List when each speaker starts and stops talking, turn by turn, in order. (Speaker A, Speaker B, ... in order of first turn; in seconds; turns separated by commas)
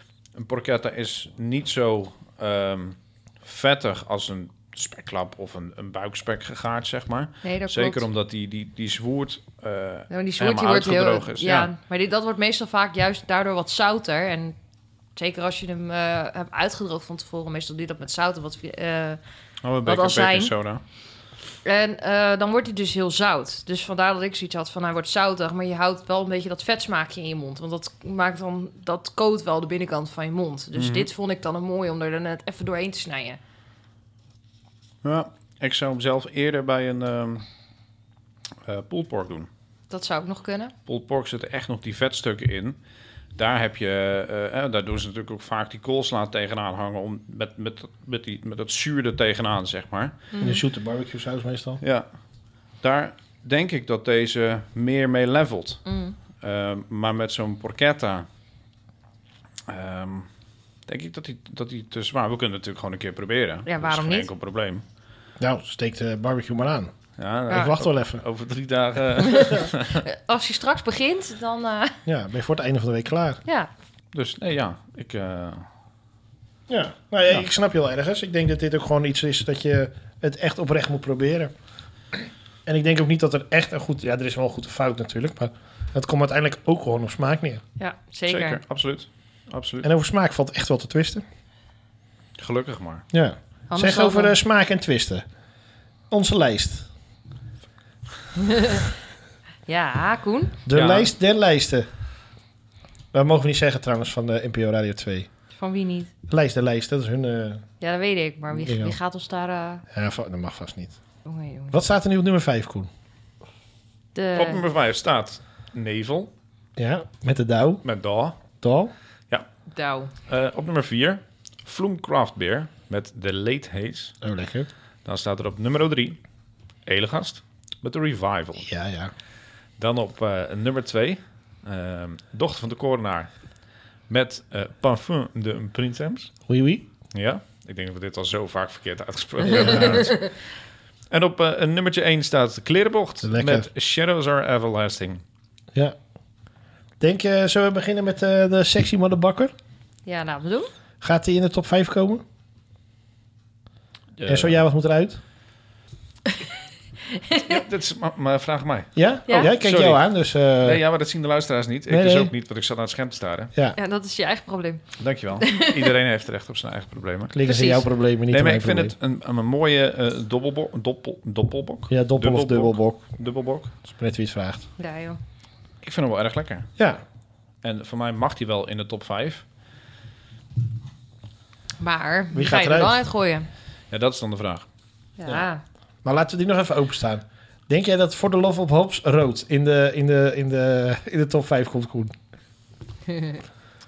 Speaker A: 0.3-11.7, Speaker B: 7.4-8.0, Speaker B: 10.1-14.6, Speaker B: 15.2-19.2, Speaker A: 19.6-20.8, Speaker B: 19.9-20.5, Speaker B: 21.6-33.4, Speaker A: 30.8-31.1, Speaker A: 35.0-37.5, Speaker A: 38.7-39.5, Speaker B: 39.9-40.7, Speaker A: 40.9-42.8, Speaker A: 43.4-50.1, Speaker B: 50.3-50.6, Speaker C: 50.4-51.8, Speaker A: 51.8-52.1, Speaker A: 52.8-55.8, Speaker B: 55.9-56.2, Speaker A: 56.4-58.3, Speaker A: 59.7-60.3, Speaker A: 60.9-64.8, Speaker B: 63.7-64.3, Speaker C: 65.4-66.9, Speaker A: 67.2-70.0, Speaker C: 67.5-68.2, Speaker B: 69.3-72.0, Speaker C: 72.1-73.4, Speaker A: 74.1-75.7, Speaker C: 76.7-81.5, Speaker C: 82.1-87.6, Speaker B: 87.8-88.6, Speaker A: 88.3-89.9, Speaker C: 89.8-91.2, Speaker A: 92.4-93.0, Speaker C: 93.1-95.2, Speaker B: 93.7-94.3, Speaker C: 96.1-96.9, Speaker B: 98.4-98.8, Speaker B: 99.7-100.6, Speaker C: 100.7-101.9, Speaker A: 100.7-101.1, Speaker C: 103.1-105.3, Speaker B: 105.5-106.1, Speaker C: 106.3-107.7, Speaker B: 107.8-109.8, Speaker C: 108.5-109.0, Speaker C: 109.9-111.0, Speaker B: 111.3-111.8, Speaker C: 111.7-112.9, Speaker B: 114.2-114.7, Speaker A: 114.4-116.3, Speaker C: 116.8-117.8, Speaker A: 117.8-118.4, Speaker C: 118.6-118.9, Speaker B: 119.7-120.1, Speaker A: 120.3-124.2, Speaker C: 124.2-124.7, Speaker A: 125.0-126.2, Speaker A: 126.9-128.7, Speaker C: 128.6-129.1, Speaker A: 129.8-133.3, Speaker A: 134.1-136.3, Speaker C: 136.5-136.9, Speaker A: 137.1-140.3, Speaker C: 139.5-140.1, Speaker B: 140.0-140.2, Speaker A: 141.1-145.2, Speaker C: 143.2-143.7, Speaker C: 147.0-149.5, Speaker B: 150.1-150.7, Speaker C: 151.0-152.2, Speaker A: 154.2-154.6, Speaker C: 154.3-155.2, Speaker B: 157.1-157.6, Speaker A: 157.3-160.0, Speaker C: 159.0-160.8, Speaker A: 160.6-163.5, Speaker C: 161.9-162.3, Speaker B: 163.8-164.8, Speaker A: 165.0-167.4, Speaker B: 165.4-165.9, Speaker C: 167.3-168.9, Speaker B: 167.4-167.9, Speaker A: 168.3-173.8, Speaker C: 171.9-173.1, Speaker C: 173.8-174.7, Speaker B: 174.8-175.2, Speaker A: 175.8-176.7, Speaker A: 177.6-179.4, Speaker B: 181.8-183.5, Speaker C: 182.3-183.0, Speaker A: 183.9-184.7, Speaker B: 185.2-185.6, Speaker C: 186.0-192.1